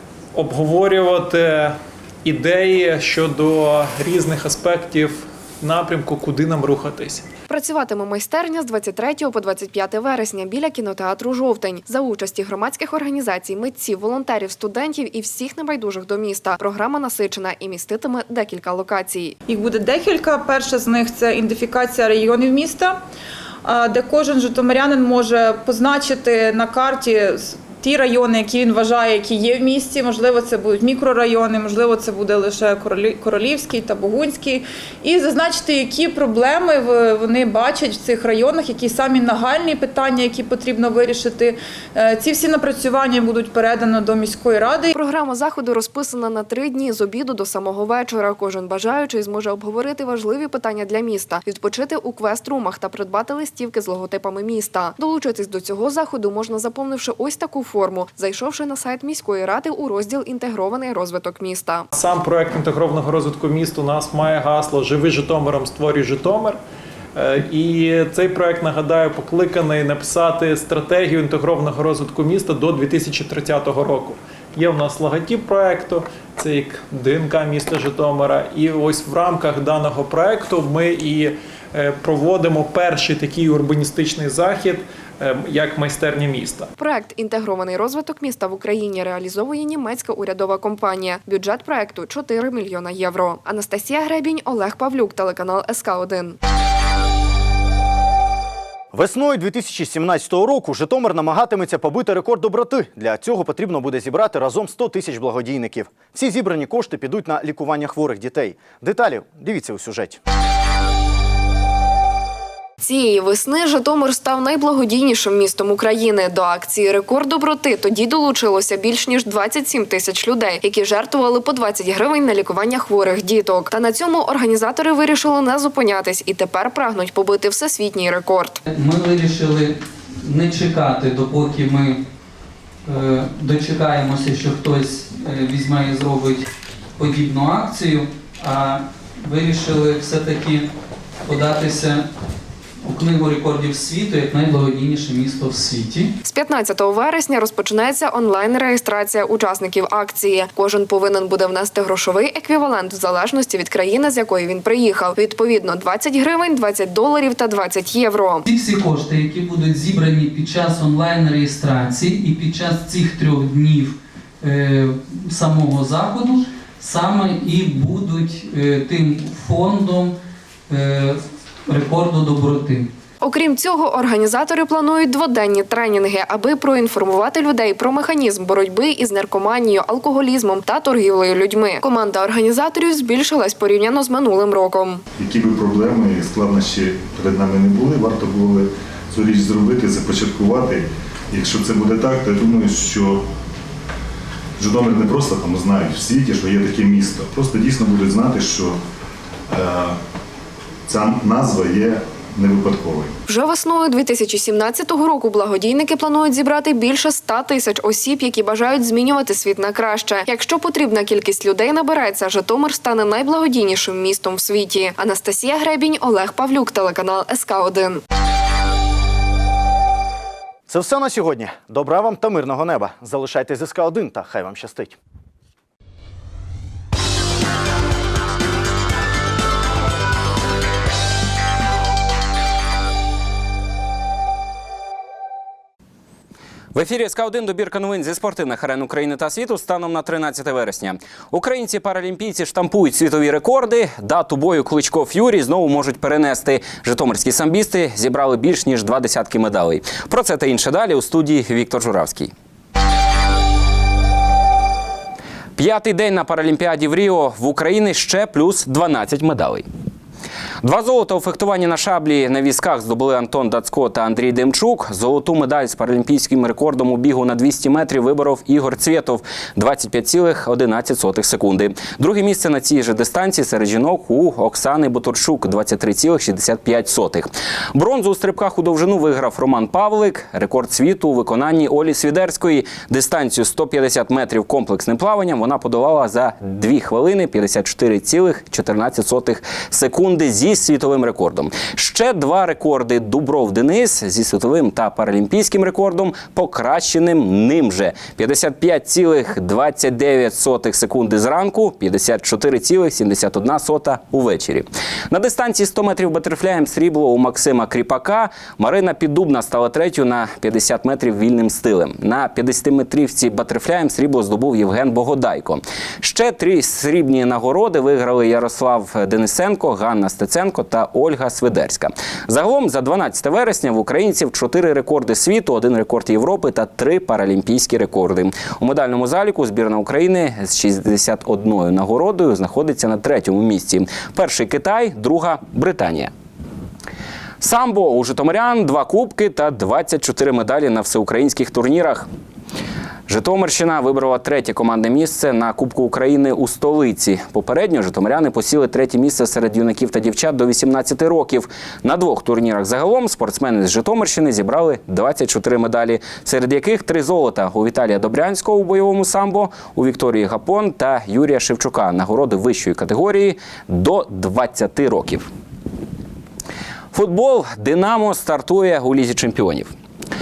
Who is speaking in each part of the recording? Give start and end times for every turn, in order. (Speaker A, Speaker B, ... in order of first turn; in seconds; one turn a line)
Speaker A: 0.3-7.2
Speaker B: 7.5-19.3
Speaker C: 19.5-23.0
Speaker C: 23.6-44.9
Speaker B: 44.9-61.9
Speaker A: 61.9-66.6
Speaker A: 67.1-86.7
Speaker B: 86.8-96.4
Speaker D: 98.9-110.2
Speaker B: 112.8-128.6
Speaker E: 128.7-132.0
Speaker E: 132.8-140.7
Speaker E: 141.2-142.1
Speaker E: 142.8-146.1
Speaker B: 146.2-158.4
Speaker E: 158.4-170.1
Speaker E: 170.7-172.9
Speaker B: 173.2-185.0
Speaker F: 185.2-193.2
Speaker F: 194.6-198.8
Speaker F: 199.5-200.0
Speaker F: 200.9-203.1
Speaker B: 203.3-218.0
Speaker D: 220.7-224.9
Speaker G: 236.7-252.3
Speaker G: 255.6-259.6
Speaker G: 260.6-336.1
Speaker G: 337.4-342.1
Speaker G: 343.1-365.3
Speaker G: 366.9-369.7